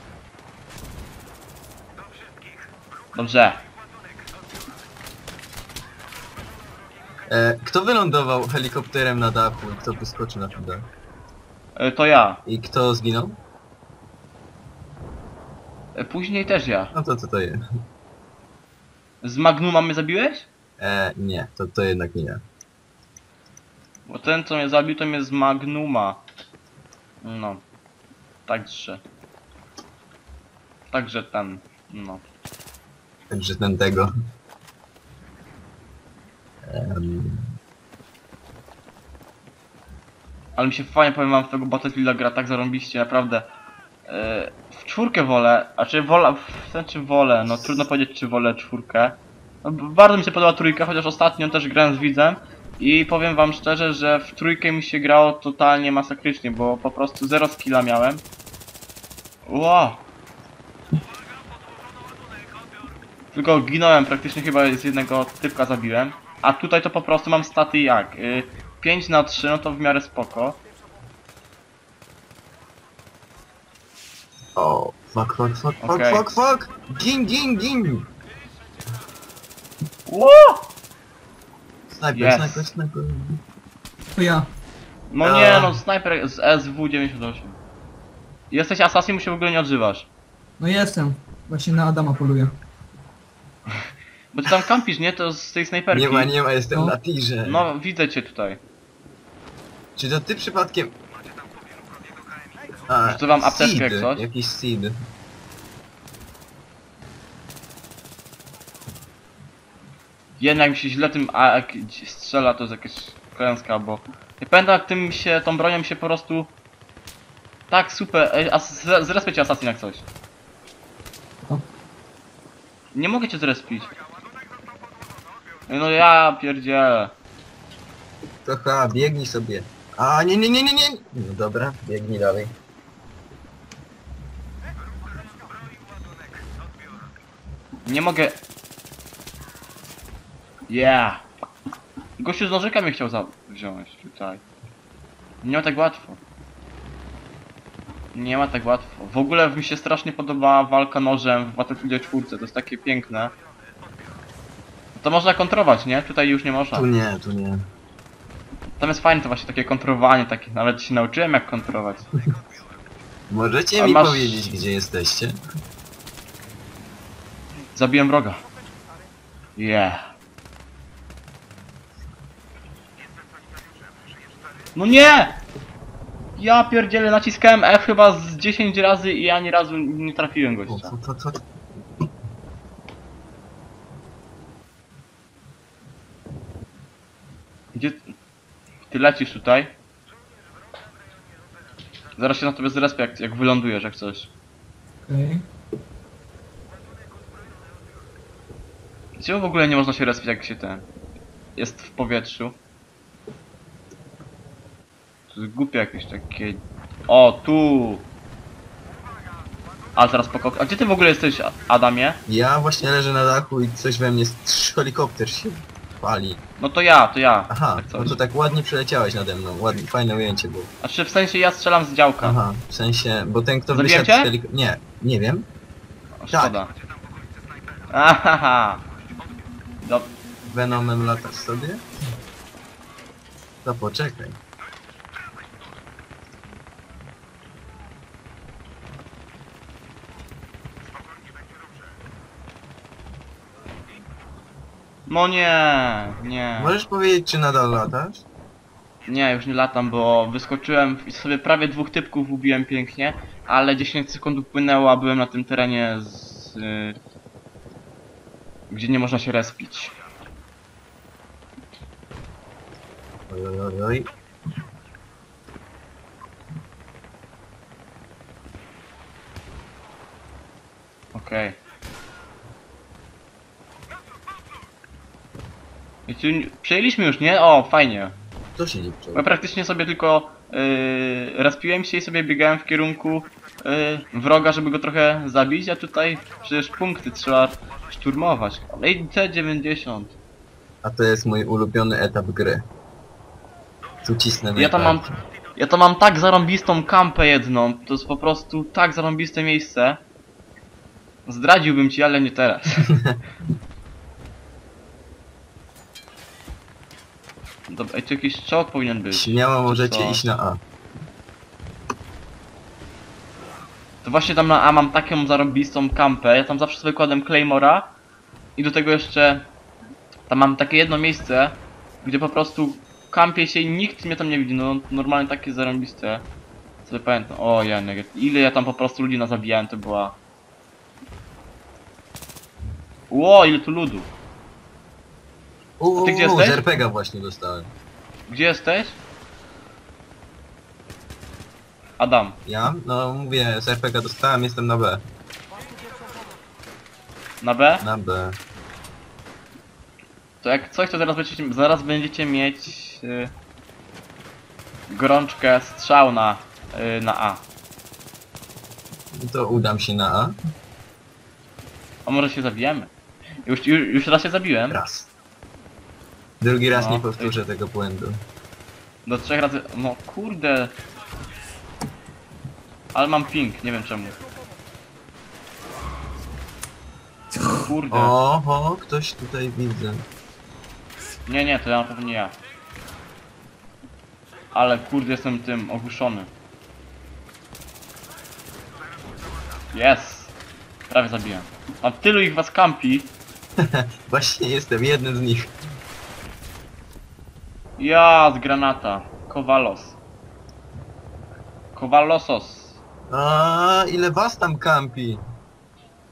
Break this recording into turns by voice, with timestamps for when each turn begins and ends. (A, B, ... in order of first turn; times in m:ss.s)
0:03.1-0:03.6 A
0:07.3-0:10.9 B
0:11.8-0:12.4 A
0:12.4-0:13.4 B
0:15.9-0:16.9 A
0:16.9-0:17.6 B
0:19.2-0:20.5 A
0:20.8-0:22.4 B
0:24.1-0:26.2 A
0:27.2-0:27.6 A
0:28.5-0:29.0 A
0:30.9-0:32.2 A
0:33.3-0:34.1 B
0:36.6-0:37.5 B
0:40.6-0:43.5 A
0:44.1-0:58.2 A
0:59.4-1:00.0 A
1:03.3-1:10.6 A
1:14.6-1:18.1 B
1:15.8-1:16.2 A
1:20.1-1:20.6 A
1:21.9-1:23.4 B
1:22.1-1:22.7 A
1:24.1-1:24.5 C
1:25.1-1:27.6 A
1:25.2-1:25.8 B
1:28.5-1:30.1 A
1:30.6-1:32.5 C
1:34.3-1:36.3 A
1:35.9-1:37.6 B
1:36.7-1:37.0 C
1:37.4-1:38.6 A
1:40.0-1:40.9 B
1:42.9-1:44.9 B
1:43.0-1:44.3 A
1:50.4-1:56.5 A
1:57.7-2:00.0 A
2:02.9-2:03.9 A
2:05.7-2:07.1 A
2:08.4-2:12.5 B
2:17.8-2:18.4 A
2:20.7-2:21.2 A
2:22.2-2:24.4 A
2:25.4-2:26.2 A
2:28.1-2:33.3 A
2:34.9-2:36.9 A
2:36.7-2:37.6 B
2:38.8-2:42.1 A
2:43.3-2:45.4 B
2:43.8-2:44.5 A
2:47.7-2:48.4 A
2:49.6-2:50.1 A
2:54.8-2:55.4 A
2:56.4-3:00.9 A
3:00.7-3:01.4 B
3:07.7-3:08.0 A
3:08.9-3:09.7 A
3:12.2-3:14.3 A
3:15.0-3:15.4 C
3:19.2-3:20.8 A
3:21.6-3:22.6 A
3:25.3-3:28.1 A
3:30.0-3:32.2 A
3:32.3-3:36.4 B
3:36.6-3:38.2 A
3:37.5-3:40.7 B
3:40.8-3:42.4 A
3:42.2-3:45.5 B
3:43.7-3:44.3 A
3:46.2-3:46.7 A
3:46.3-3:46.6 B
3:47.9-3:48.8 A
3:49.8-3:50.1 A
3:50.4-3:51.8 B
3:53.6-3:54.4 B
4:05.1-4:06.7 A
4:06.6-4:08.2 B
4:09.1-4:17.0 A
4:18.7-4:20.0 A
4:23.3-4:24.1 B
4:31.1-4:31.6 A
4:36.1-4:38.1 A
4:38.6-4:39.3 B
4:39.1-4:50.1 A
4:50.8-4:52.6 B
4:54.0-4:55.2 B
4:54.6-5:00.0 A
5:01.2-5:02.9 A
5:07.7-5:10.3 A
5:09.1-5:10.6 B
5:14.0-5:17.9 A
5:18.6-5:19.4 A
5:20.3-5:26.2 A
5:26.8-5:30.2 A
5:33.1-5:34.1 A
5:35.8-5:37.7 B
5:35.9-5:36.7 A
5:38.3-5:39.0 A
5:42.0-5:42.4 A
5:42.4-5:45.0 B
5:47.4-5:47.8 A
5:47.8-5:48.4 B
5:50.4-5:53.3 A
5:54.9-5:57.4 A
5:59.1-6:00.3 B
6:02.0-6:02.9 A
6:03.4-6:04.8 A
6:04.7-6:05.1 B
6:06.4-6:08.2 B
6:06.7-6:07.3 A
6:09.0-6:10.7 A
6:12.9-6:14.2 A
6:17.6-6:18.1 A
6:17.9-6:20.0 B
6:21.2-6:22.4 A
6:24.5-6:26.3 A
6:29.7-6:30.3 A
6:30.9-6:33.1 A
6:33.6-6:35.5 B
6:37.8-6:40.0 A
6:41.7-6:42.8 A
6:43.1-6:45.2 B